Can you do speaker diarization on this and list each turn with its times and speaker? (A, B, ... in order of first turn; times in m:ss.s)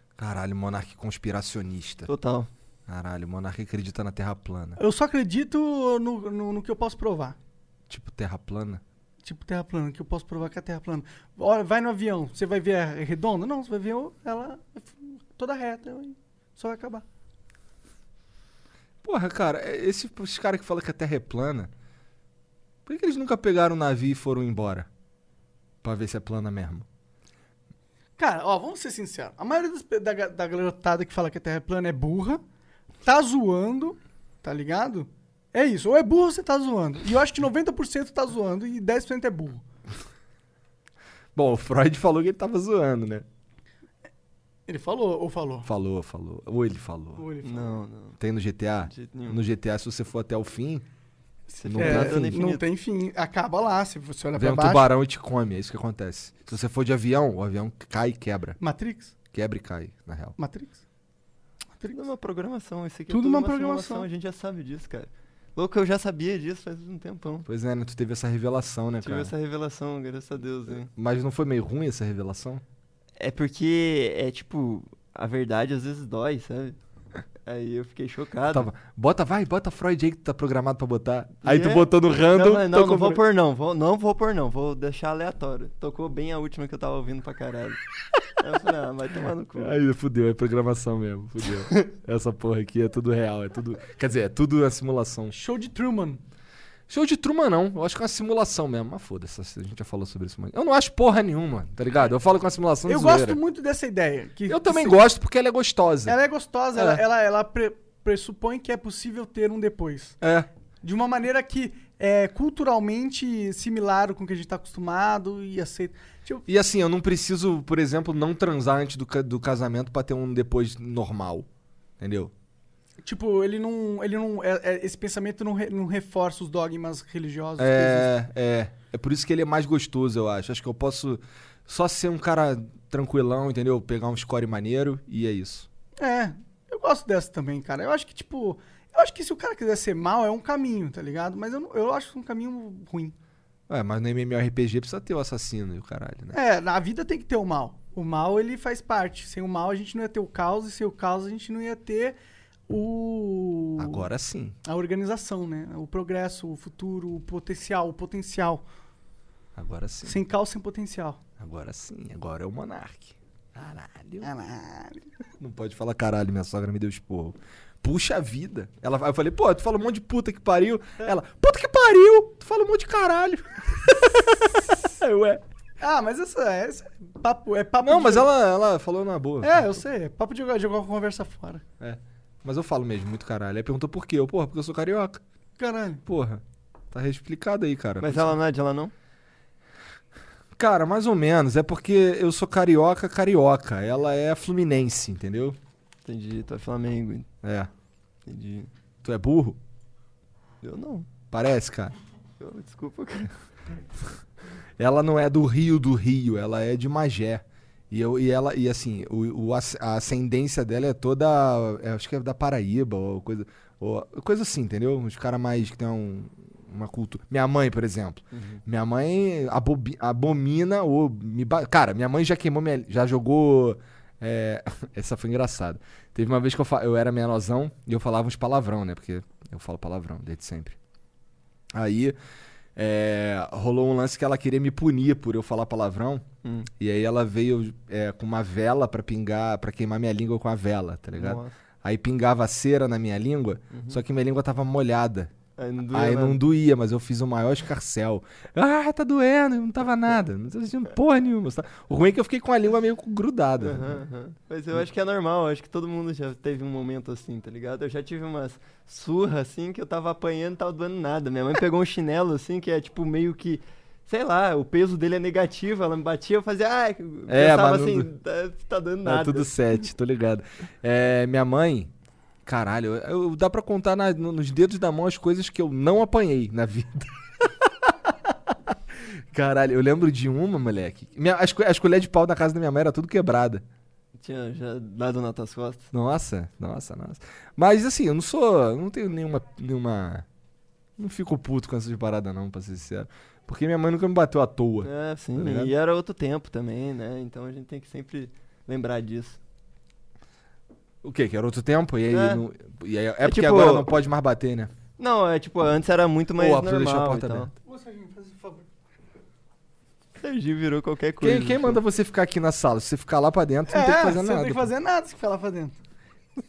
0:00.2-0:02.1 A
0:02.1-0:02.5 B
0:02.9-0:04.8 A
0:04.8-0:07.4 C
0:07.9-0:08.8 A
0:09.2-0:17.0 C
0:19.0-0:21.7 A
0:22.9-0:24.9 A
0:25.8-0:26.9 A
0:28.2-0:32.4 C
0:33.0-0:39.6 C
0:41.4-0:43.3 A
0:44.7-0:45.7 C
0:45.6-0:47.3 A
0:47.2-0:47.8 C
0:47.4-0:48.2 B
0:48.2-0:50.8 A
0:48.9-0:49.4 B
0:51.5-0:54.9 C
0:51.6-0:52.6 B
0:51.6-0:52.3 A
0:54.4-0:58.6 A
0:58.6-0:59.1 C
0:59.3-1:00.4 A
1:00.4-1:00.8 C
1:01.9-1:07.5 B
1:03.1-1:04.1 C
1:07.5-1:09.3 A
1:09.0-1:10.9 B
1:10.9-1:12.6 A
1:13.2-1:16.8 B
1:17.5-1:18.7 B
1:18.5-1:23.2 A
1:21.4-1:27.8 B
1:28.4-1:29.8 B
1:29.6-1:35.4 A
1:35.3-1:36.2 C
1:36.9-1:43.4 A
1:42.9-1:45.1 C
1:44.5-1:46.2 A
1:46.1-1:50.2 C
1:46.7-1:47.0 A
1:50.2-1:50.5 A
1:50.8-1:56.4 C
1:56.5-2:01.5 A
2:02.0-2:02.3 A
2:03.0-2:08.2 C
2:07.6-2:15.7 A
2:16.0-2:23.2 C
2:23.7-2:26.4 A
2:26.3-2:32.2 C
2:32.7-2:34.0 C
2:33.8-2:34.6 A
2:34.6-2:38.6 C
2:39.6-2:40.2 A
2:40.0-2:41.2 C
2:41.4-2:44.3 A
2:44.2-2:45.1 C
2:45.4-2:55.4 A
2:55.8-2:58.3 C
2:57.8-2:59.7 A
2:59.4-3:01.6 C
3:01.8-3:05.2 A
3:05.6-3:06.0 C
3:06.1-3:08.4 A
3:08.0-3:08.9 B
3:10.6-3:15.6 A
3:16.1-3:17.3 B
3:17.4-3:17.7 A
3:18.3-3:18.7 B
3:19.0-3:19.6 A
3:20.6-3:21.1 B
3:21.3-3:21.9 A
3:22.4-3:23.3 B
3:24.8-3:50.8 A
3:38.3-3:38.6 B
3:51.7-3:52.2 A
3:52.8-3:56.3 A
3:56.4-3:56.7 B
3:56.8-4:05.3 A
4:01.1-4:01.5 B
4:03.7-4:04.0 B
4:05.6-4:06.4 B
4:05.9-4:14.0 A
4:13.6-4:29.5 B
4:27.3-4:28.1 A
4:29.0-4:31.9 A
4:32.5-4:43.6 A
4:44.2-4:45.9 B
4:45.9-4:50.2 A
4:51.0-4:55.7 A
4:54.8-4:59.4 B
5:01.0-5:04.7 A
5:02.1-5:02.4 B
5:03.2-5:03.9 B
5:05.0-5:07.5 B
5:06.4-5:07.5 A
5:07.6-5:08.7 C
5:10.2-5:11.8 B
5:11.2-5:14.7 A
5:13.7-5:15.8 C